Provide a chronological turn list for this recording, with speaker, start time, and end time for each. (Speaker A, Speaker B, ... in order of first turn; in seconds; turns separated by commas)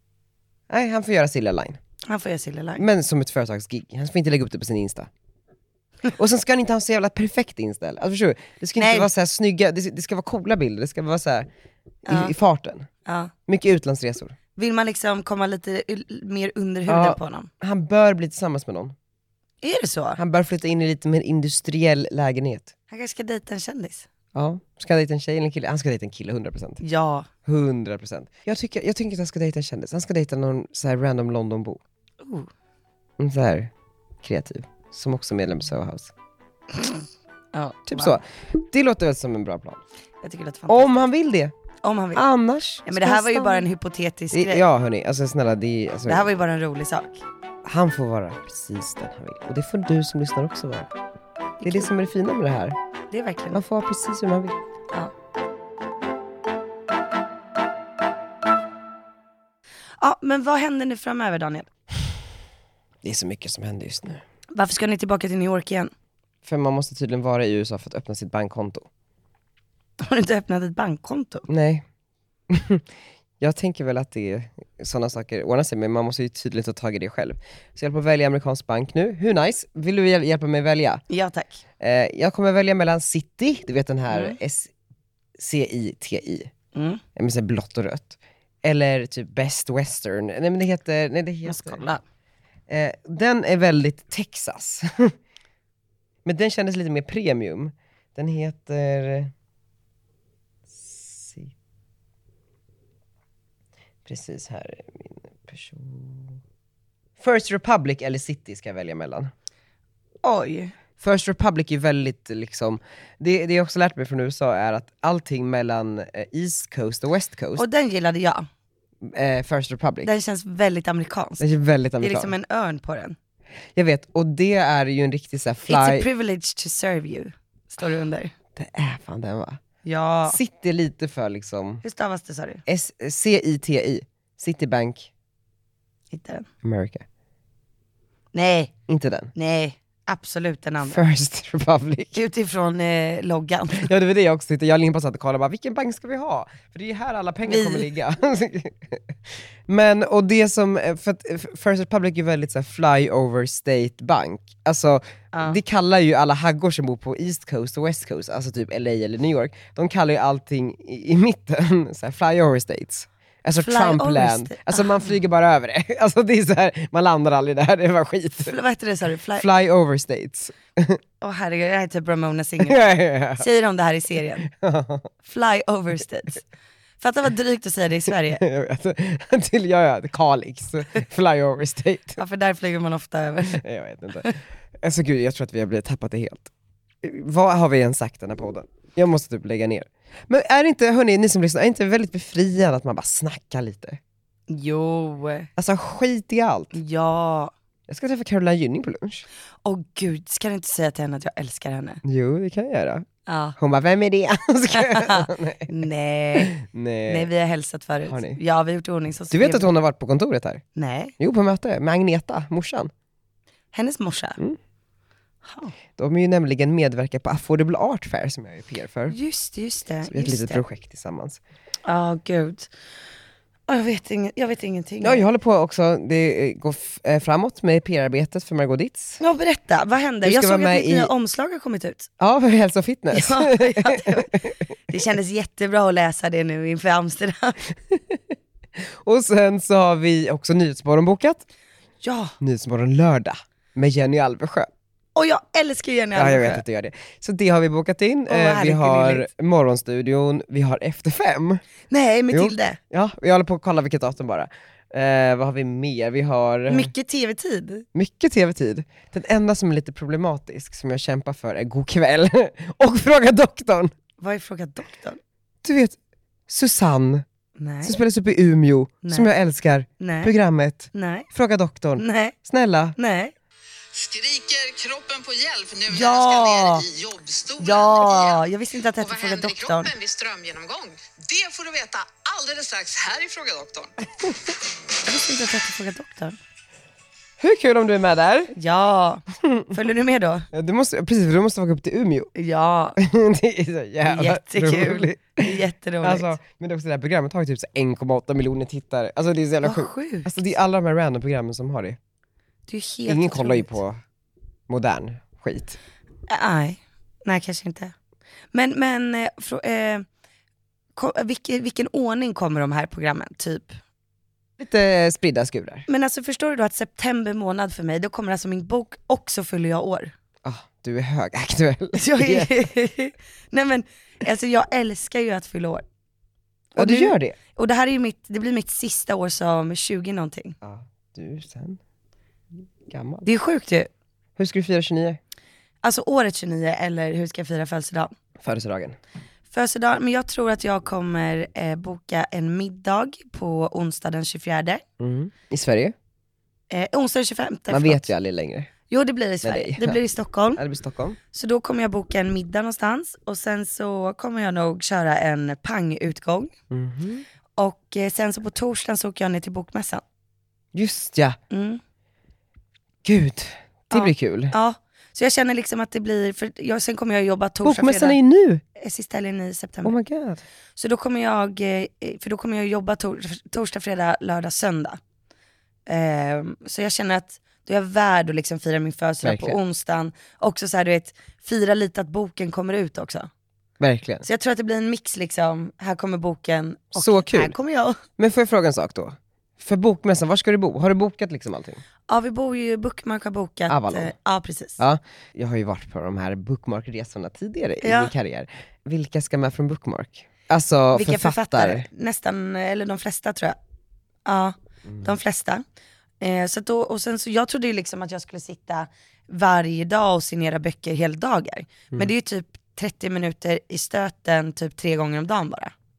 Speaker A: 0.7-1.8, Speaker B: 2.1-2.8, Speaker A: 2.8-5.1, Speaker A: 6.1-11.5, Speaker B: 8.8-9.1, Speaker A: 12.1-12.9, Speaker B: 12.1-12.3, Speaker B: 13.1-13.3, Speaker A: 13.5-14.4, Speaker B: 14.6-17.5, Speaker A: 16.9-18.9, Speaker B: 19.6-20.2, Speaker A: 20.1-22.7, Speaker B: 22.9-24.1, Speaker A: 24.3-26.8, Speaker B: 26.8-27.3, Speaker A: 27.4-31.8, Speaker B: 32.2-32.5, Speaker A: 33.2-33.7, Speaker A: 34.2-36.1, Speaker B: 36.8-37.0, Speaker B: 37.5-38.2, Speaker A: 37.9-39.8, Speaker B: 40.2-40.9, Speaker A: 40.7-41.5, Speaker B: 41.8-42.2, Speaker A: 42.1-43.7, Speaker B: 42.9-44.6, Speaker A: 44.3-46.3, Speaker B: 46.1-47.2, Speaker A: 47.6-50.9, Speaker B: 51.6-51.9, Speaker A: 51.6-52.8, Speaker B: 53.1-53.6, Speaker A: 53.5-54.6, Speaker B: 60.0-61.7, Speaker A: 63.0-64.2, Speaker B: 64.5-65.9, Speaker A: 66.5-68.9, Speaker B: 70.0-71.5, Speaker A: 71.5-71.8, Speaker A: 72.5-72.9, Speaker A: 73.4-81.0, Speaker B: 81.1-81.6, Speaker A: 81.8-84.7, Speaker B: 84.1-84.4, Speaker A: 85.4-86.5, Speaker B: 86.7-87.0, Speaker A: 87.1-91.8, Speaker B: 91.5-92.0, Speaker A: 92.7-95.1, Speaker A: 96.2-99.3, Speaker A: 100.7-101.5, Speaker A: 104.0-106.4, Speaker A: 107.2-109.3, Speaker B: 110.2-110.7, Speaker A: 111.0-117.7, Speaker B: 117.6-118.5, Speaker A: 119.0-120.1, Speaker B: 120.0-121.5, Speaker A: 121.4-122.3, Speaker B: 122.0-123.2, Speaker A: 123.8-126.1, Speaker B: 125.7-128.3, Speaker A: 128.6-129.6, Speaker B: 129.8-130.4, Speaker A: 130.3-131.8, Speaker B: 131.8-132.6, Speaker A: 132.7-135.1, Speaker B: 136.1-136.5, Speaker A: 136.6-137.1, Speaker B: 138.3-138.7, Speaker A: 138.9-139.3, Speaker B: 139.4-141.0, Speaker A: 140.9-142.2, Speaker B: 142.1-143.9, Speaker A: 143.8-149.0, Speaker B: 147.5-147.9, Speaker A: 149.7-168.6, Speaker B: 155.3-155.6, Speaker B: 163.5-165.0, Speaker B: 168.4-169.5, Speaker A: 169.3-171.0, Speaker B: 171.2-174.5, Speaker A: 172.6-173.5, Speaker A: 174.5-175.1, Speaker B: 175.2-176.4, Speaker B: 177.0-178.4, Speaker A: 178.4-182.2, Speaker B: 182.2-183.6, Speaker A: 183.5-186.5, Speaker A: 187.0-194.0, Speaker B: 194.5-195.5, Speaker A: 195.6-196.8, Speaker B: 196.7-197.5, Speaker A: 197.9-199.3, Speaker B: 199.6-202.0, Speaker A: 202.0-203.1, Speaker B: 203.3-203.6, Speaker A: 203.6-205.7, Speaker B: 204.7-206.6, Speaker A: 206.3-207.3, Speaker B: 207.1-209.7, Speaker A: 208.1-208.4, Speaker A: 209.3-210.6, Speaker B: 210.8-211.1, Speaker A: 211.2-212.9, Speaker B: 213.7-214.4, Speaker B: 215.4-215.7, Speaker A: 216.0-219.2, Speaker B: 219.1-220.6, Speaker A: 220.1-221.4, Speaker B: 221.9-222.7, Speaker B: 223.7-225.2, Speaker A: 225.0-229.2, Speaker B: 229.2-232.1, Speaker A: 230.2-231.1, Speaker A: 232.2-234.6, Speaker B: 233.1-234.4, Speaker B: 234.9-237.6, Speaker A: 237.9-238.2, Speaker A: 238.8-241.4, Speaker B: 242.0-242.3, Speaker A: 242.4-244.7, Speaker B: 245.1-246.6, Speaker A: 246.1-251.6, Speaker B: 248.3-249.3, Speaker B: 251.9-252.8, Speaker A: 252.3-256.9, Speaker B: 256.7-257.9, Speaker A: 257.9-263.9, Speaker B: 264.2-265.2, Speaker A: 265.6-265.9, Speaker A: 266.5-267.2, Speaker B: 267.6-268.0, Speaker A: 267.8-272.9, Speaker B: 269.0-269.3, Speaker B: 270.0-270.3, Speaker B: 270.9-271.3, Speaker B: 272.0-272.4, Speaker B: 273.0-273.3, Speaker C: 273.9-278.4, Speaker B: 275.9-276.9, Speaker B: 277.6-279.9, Speaker C: 279.0-283.9, Speaker B: 285.0-286.4, Speaker A: 287.4-288.5, Speaker B: 288.5-290.5, Speaker A: 289.4-289.7, Speaker A: 290.5-292.3, Speaker B: 292.4-293.0, Speaker A: 293.0-302.0, Speaker B: 294.1-296.3, Speaker B: 299.6-300.3, Speaker B: 302.7-303.7, Speaker A: 303.1-304.0, Speaker A: 304.7-305.8, Speaker B: 306.3-307.9, Speaker B: 308.5-310.1, Speaker B: 310.9-313.8, Speaker A: 314.6-315.9, Speaker B: 315.9-320.1, Speaker A: 320.4-322.6, Speaker B: 321.9-325.9, Speaker B: 326.7-330.6, Speaker A: 326.8-327.4, Speaker A: 330.6-331.8, Speaker A: 332.9-333.3, Speaker B: 333.2-333.9, Speaker A: 334.4-335.2, Speaker B: 335.8-338.1, Speaker A: 338.4-339.0, Speaker B: 339.5-344.8, Speaker A: 345.0-345.9, Speaker B: 346.7-348.1, Speaker A: 347.7-348.7, Speaker B: 348.9-350.6, Speaker A: 349.4-350.0, Speaker A: 350.6-351.2, Speaker B: 351.3-356.5, Speaker A: 356.7-357.2, Speaker B: 357.6-360.0, Speaker A: 360.7-361.4, Speaker B: 361.5-361.8, Speaker A: 363.0-364.6, Speaker B: 363.9-368.2, Speaker A: 367.6-368.6, Speaker B: 368.8-369.9, Speaker A: 369.8-370.4, Speaker B: 370.8-375.0, Speaker B: 375.9-383.3, Speaker A: 379.2-379.6, Speaker A: 383.8-384.3, Speaker B: 384.2-388.0, Speaker A: 386.9-387.6, Speaker A: 388.2-391.8, Speaker B: 392.1-394.8, Speaker A: 393.7-394.1, Speaker A: 394.8-401.9, Speaker B: 397.8-398.1, Speaker B: 400.9-403.6, Speaker B: 404.3-405.6, Speaker B: 406.2-415.7